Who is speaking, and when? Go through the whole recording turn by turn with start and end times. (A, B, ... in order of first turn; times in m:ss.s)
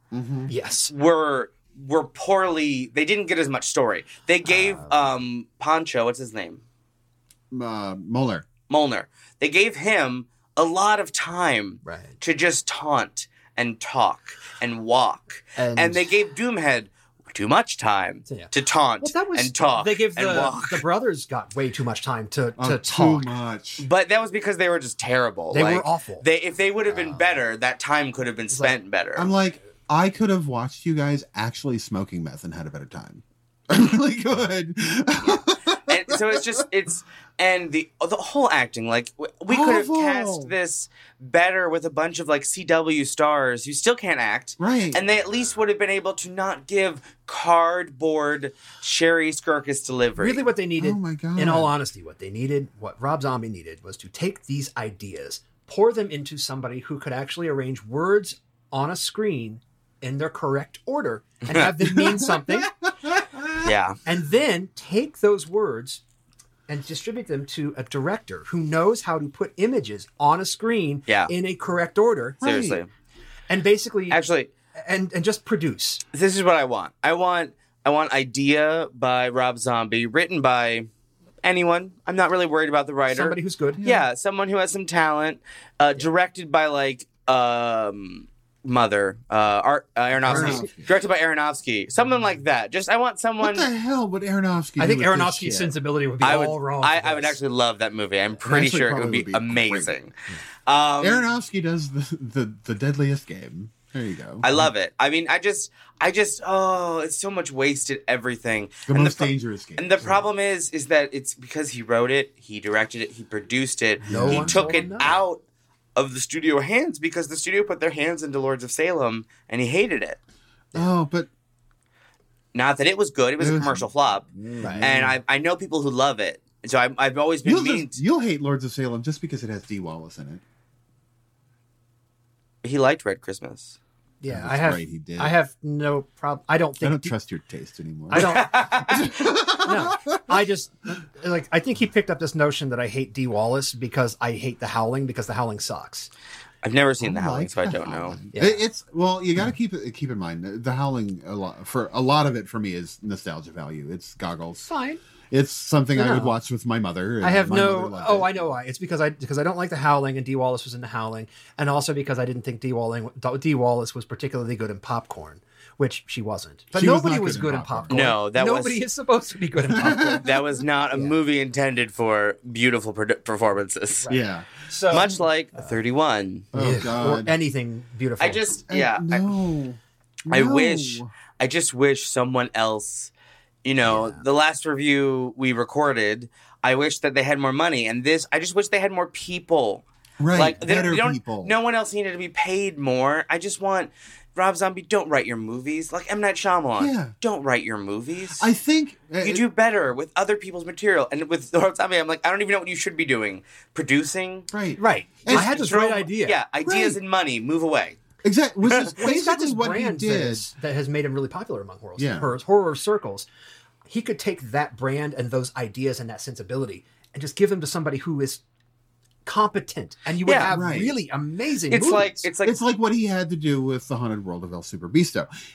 0:00.1-0:00.5 A
0:00.5-0:00.9 B
0:00.9-0:06.6 C
0:04.4-0:05.1 B
0:07.5-0:08.5 A
0:08.7-0:20.8 C
0:11.8-0:12.1 B
0:15.6-0:16.1 B
0:18.3-0:23.3 B
0:22.6-0:23.8 A
0:23.8-0:29.3 C
0:25.5-0:26.2 B
0:26.9-0:27.4 B
0:29.2-0:36.6 A
0:35.9-0:50.4 C
0:39.5-0:40.5 A
0:44.6-0:45.0 A
0:50.2-1:02.7 B
0:50.8-0:51.7 A
1:01.8-1:03.7 A
1:03.6-1:04.0 C
1:04.0-1:06.0 B
1:06.7-1:12.4 B
1:12.4-1:12.8 A
1:12.4-1:12.9 C
1:13.5-1:14.2 B
1:14.1-1:14.5 C
1:14.8-1:16.0 B
1:16.1-1:20.9 C
1:21.4-1:33.7 C
1:23.1-1:23.8 B
1:23.8-1:24.1 A
1:30.2-1:30.9 A
1:30.2-1:30.7 B
1:33.4-1:35.7 A
1:34.8-1:37.4 B
1:36.2-1:40.1 C
1:38.4-1:39.9 A
1:40.6-1:41.2 C
1:41.0-1:44.7 A
1:44.4-1:55.4 C
1:48.9-1:50.2 A
1:54.0-1:55.1 B
1:54.1-1:55.1 A
1:56.0-2:00.2 C
2:00.7-2:01.3 A
2:02.5-2:04.2 C
2:03.4-2:05.2 A
2:04.6-2:04.9 B
2:04.8-2:08.0 C
2:07.4-2:10.4 A
2:12.6-2:13.8 C
2:14.2-2:17.1 B
2:14.3-2:15.3 A
2:16.8-2:20.4 A
2:18.1-2:19.0 B
2:18.1-2:19.0 C
2:19.6-2:26.1 B
2:26.6-2:28.2 C
2:27.0-2:34.7 A
2:28.3-2:28.6 B
2:34.7-2:35.0 B
2:35.3-2:38.5 A
2:35.9-2:36.3 B
2:37.2-2:50.3 B
2:46.7-2:48.0 A
2:47.9-2:48.8 C
2:49.7-2:50.4 A
2:50.0-2:54.1 C
2:50.9-2:51.2 B
2:54.0-2:55.7 B
2:54.1-2:54.5 A
2:54.9-2:56.5 C
2:56.5-2:57.3 A
2:56.5-2:58.4 B
2:58.2-2:59.3 C
2:58.7-3:01.1 A
3:00.3-3:03.1 C
3:03.6-3:18.4 C
3:03.8-3:04.2 B
3:10.2-3:11.5 A
3:16.8-3:17.1 A
3:18.4-3:19.4 A
3:19.2-3:24.5 C
3:24.5-3:25.7 A
3:24.8-3:26.4 B
3:25.3-3:28.0 C
3:26.6-3:27.0 A
3:28.2-3:30.4 A
3:29.0-3:33.3 B
3:32.0-3:32.3 A
3:33.8-3:38.4 B
3:39.2-3:42.3 B
3:40.2-3:40.5 C
3:40.4-3:40.9 A
3:41.7-3:42.6 C
3:42.4-3:45.3 A